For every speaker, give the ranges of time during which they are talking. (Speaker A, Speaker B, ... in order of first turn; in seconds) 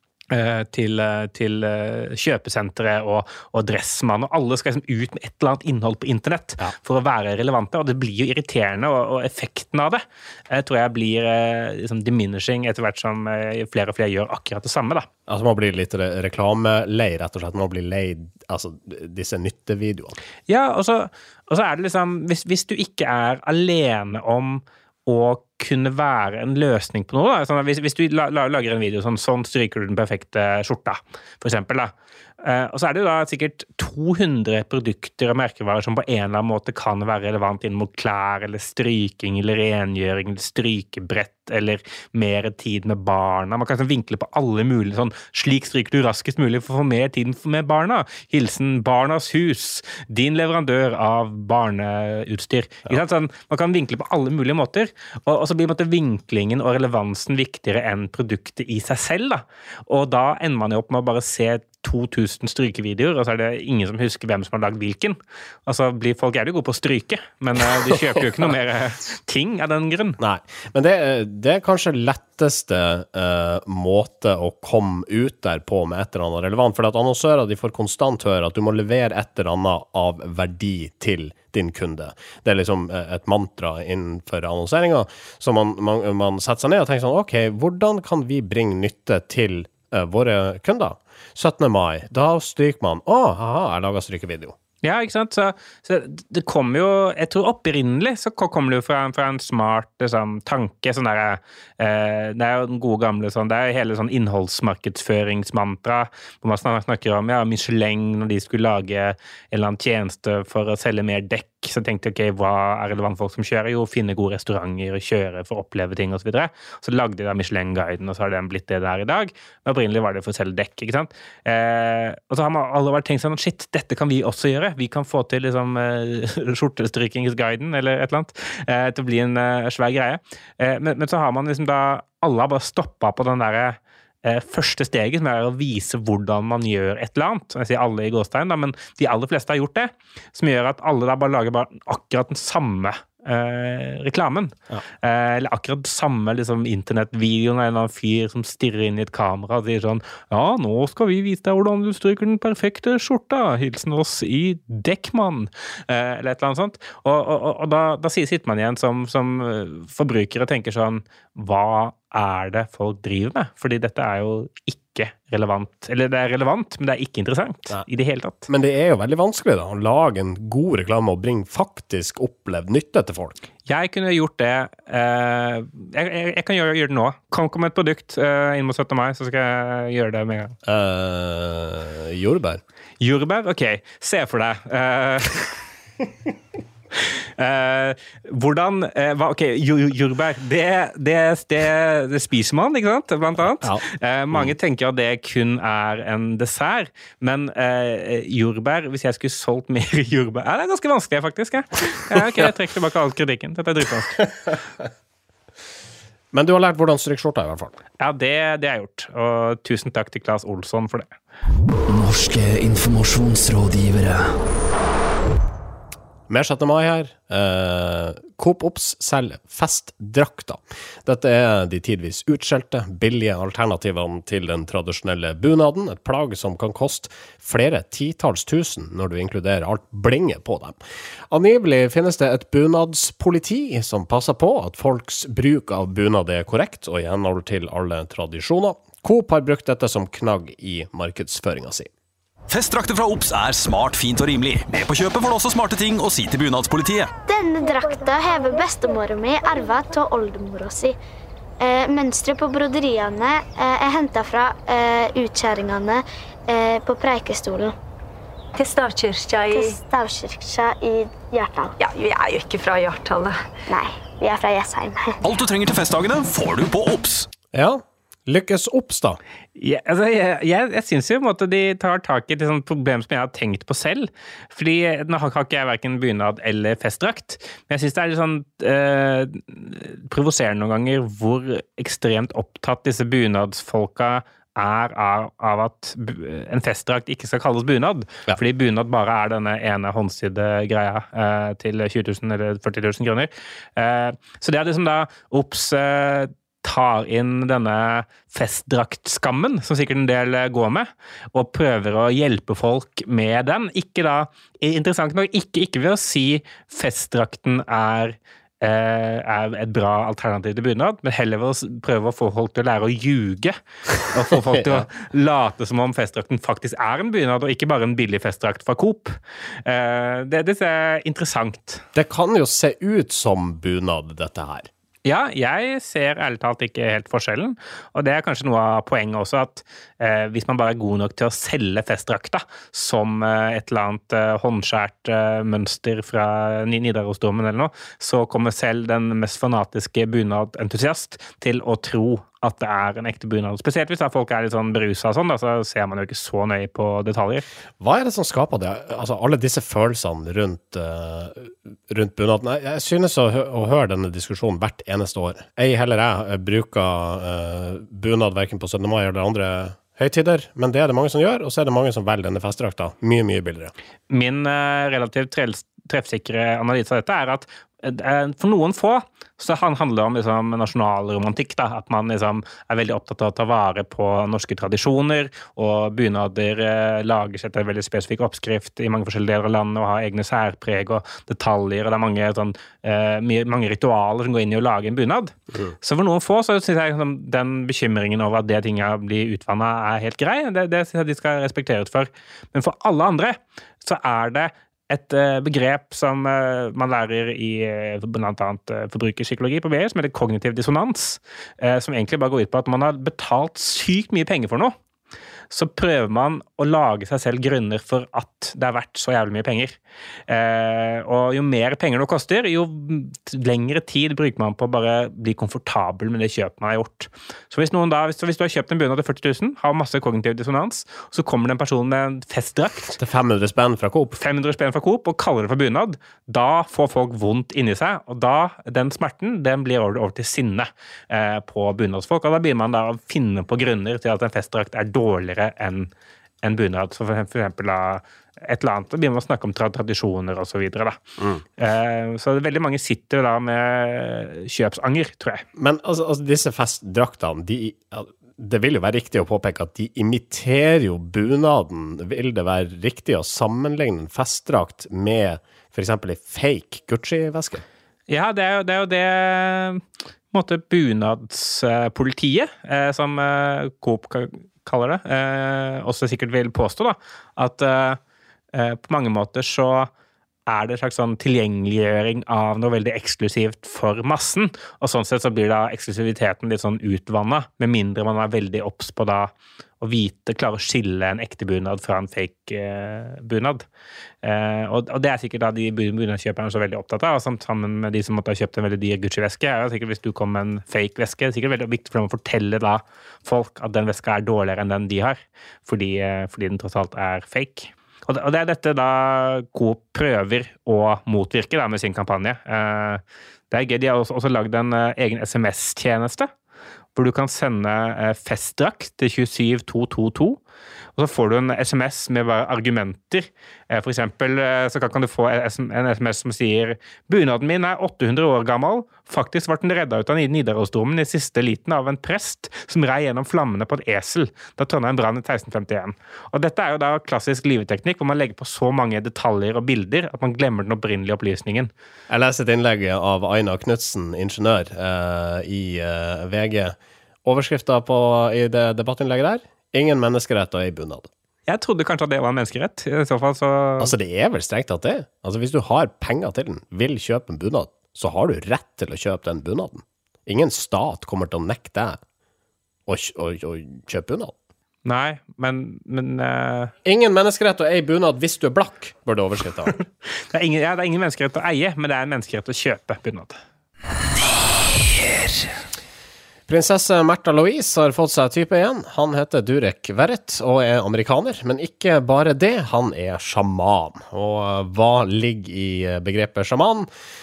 Speaker A: 0.3-15.1, 20.5-70.2, 94.8-168.5, 173.7-180.6, 183.0-185.6, 187.4-204.3, 208.0-211.1, 269.6-321.8, 325.1-347.4, 364.1-404.8, 405.5-409.8, 410.3-423.0, 424.2-435.9, 436.4-441.0, 441.6-445.4, 458.1-468.0, 468.5-469.9, 470.5-483.6, 484.2-506.3, 506.9-510.4, 511.0-531.7, 541.5-543.9, 554.9-556.7, 560.3-563.4
Speaker B: 15.3-20.2, 70.2-94.5, 168.5-173.4, 180.7-182.6, 193.6-194.5, 206.3-207.7, 216.3-230.8, 231.3-241.9, 267.5-269.2, 314.5-314.9, 321.9-324.7, 347.8-363.7, 423.0-424.2, 445.6-457.6, 532.1-541.1, 543.8-552.0, 552.9-554.3, 556.8-559.8, 566.5-576.9
Speaker C: 211.9-214.3, 564.9-565.5
Speaker D: 242.5-247.1, 265.2-267.3
Speaker E: 247.3-251.0, 251.6-257.8, 259.5-261.8, 263.7-265.2
Speaker F: 258.6-259.8, 261.8-263.4